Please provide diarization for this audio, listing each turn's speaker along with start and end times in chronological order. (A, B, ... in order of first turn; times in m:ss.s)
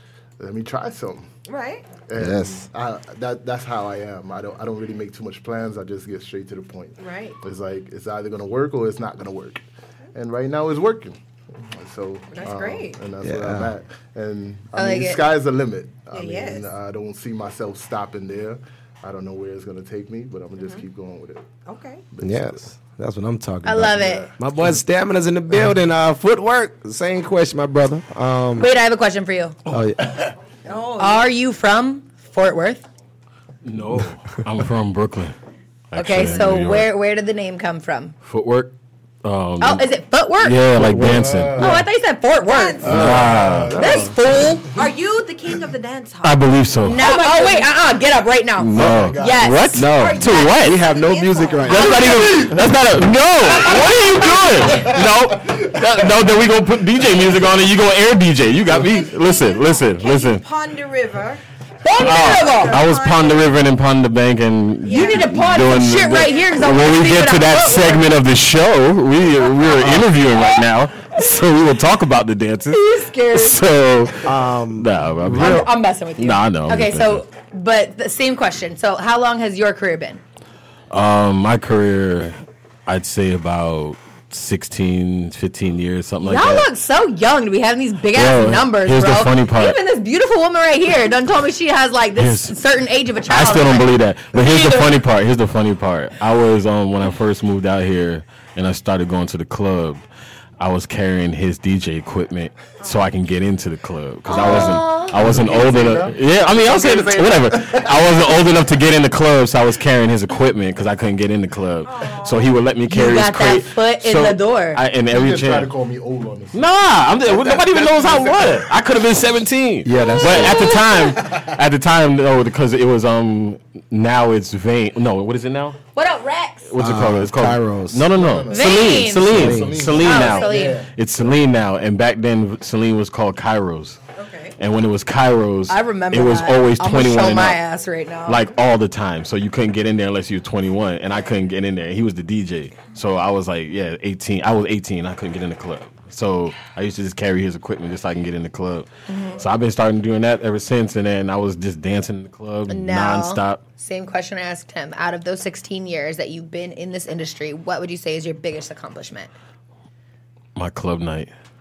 0:00.4-0:01.3 A
0:01.5-0:01.9 B
0:02.1-0:21.5 A
0:02.2-0:02.7 C
0:07.0-0:07.4 B
0:12.3-0:13.0 B
0:13.2-0:13.7 C
0:14.7-0:15.2 D
0:16.1-0:16.7 B
0:21.7-0:22.0 B
0:22.1-0:22.7 A
0:22.2-0:28.7 C
0:23.6-0:24.3 D
0:23.9-0:24.3 A
0:28.6-0:29.6 D
0:29.7-0:30.3 C
0:30.6-0:31.3 B
0:31.0-0:32.8 D
0:33.6-0:35.4 E
0:35.9-0:36.9 E
0:36.0-0:38.2 D
0:38.2-0:38.7 E
0:39.2-0:39.9 E
0:39.6-0:40.6 D
0:40.4-0:41.8 E
0:40.8-0:41.8 C
0:41.0-0:41.8 A
0:41.6-0:42.8 D
0:42.4-0:43.0 B
0:42.8-0:43.8 E
0:42.8-0:44.2 C
0:42.9-0:44.0 A
0:43.8-0:44.7 D
0:44.7-0:47.7 B
0:46.2-0:47.0 E
0:46.8-0:49.9 D
0:48.6-0:50.8 E
0:48.7-0:49.2 C
0:48.8-0:49.4 A
0:49.7-0:52.8 C
0:49.9-0:52.2 B
0:51.6-1:00.4 E
0:53.5-0:54.8 B
0:54.3-0:55.7 A
0:58.7-1:01.4 B
1:01.8-1:02.8 D
1:02.0-1:03.6 B
1:02.0-1:17.2 E
1:04.8-1:05.4 B
1:04.9-1:08.1 D
1:09.8-1:10.1 C
1:12.7-1:13.6 D
1:14.2-1:15.7 C
1:15.3-1:20.2 D
1:20.9-1:26.7 E
1:26.2-1:35.0 D
1:28.1-1:29.8 E
1:32.2-1:32.6 E
1:33.3-1:40.0 E
1:40.6-1:55.7 E
1:42.8-1:43.1 B
1:44.3-1:45.2 D
1:44.3-1:48.7 A
1:51.8-1:52.6 B
1:52.9-1:54.8 D
1:55.1-1:58.8 A
1:56.5-2:05.8 E
1:59.8-2:00.9 C
2:00.0-2:01.2 D
2:01.2-2:01.5 A
2:06.0-2:06.7 D
2:06.7-2:14.0 E
2:06.8-2:08.1 C
2:08.1-2:11.3 A
2:08.5-2:09.4 D
2:09.2-2:09.9 C
2:10.0-2:10.8 D
2:10.2-2:10.7 B
2:14.2-2:14.6 B
2:14.6-2:17.6 E
2:15.7-2:18.4 D
2:18.3-2:33.6 E
2:29.1-2:29.4 D
2:32.7-2:39.3 D
2:40.6-2:41.3 E